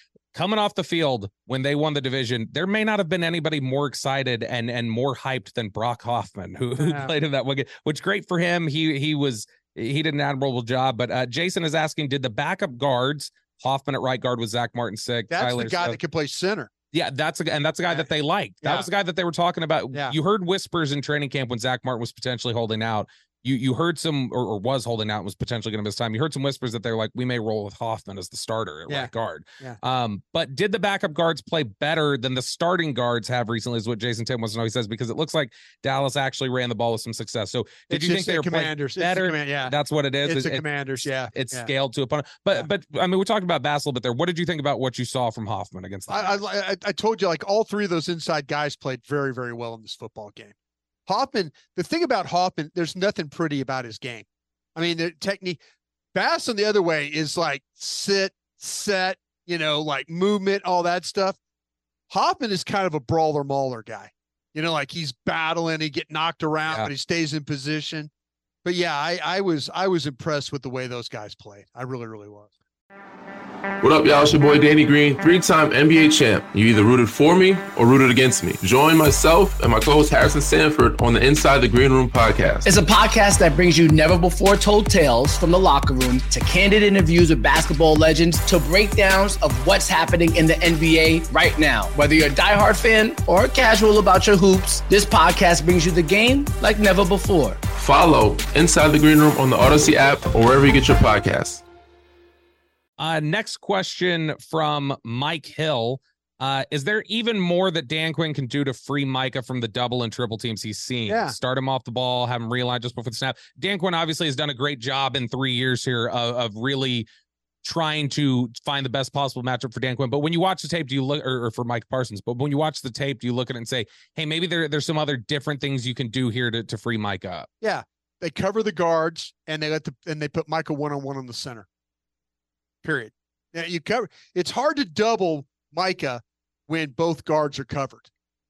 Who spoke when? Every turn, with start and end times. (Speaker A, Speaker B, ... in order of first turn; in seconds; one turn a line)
Speaker A: 0.3-16.0
Speaker B: 6.8-7.1
Speaker B: 15.3-16.7
Speaker A: 16.9-46.4
Speaker B: 18.6-18.9
Speaker B: 28.9-29.8
Speaker B: 37.9-41.7
Speaker B: 46.1-50.5
Speaker B: 51.1-55.6
Speaker B: 56.1-61.4
Speaker B: 62.1-68.1
Speaker B: 68.6-72.5
Speaker C: 73.8-82.6
Speaker D: 82.6-97.6
Speaker C: 97.8-101.6
Speaker A: 103.0-117.1
Speaker B: 111.1-111.4
Speaker A: 117.6-127.5
Speaker B: 127.6-131.7
Speaker B: 132.8-138.1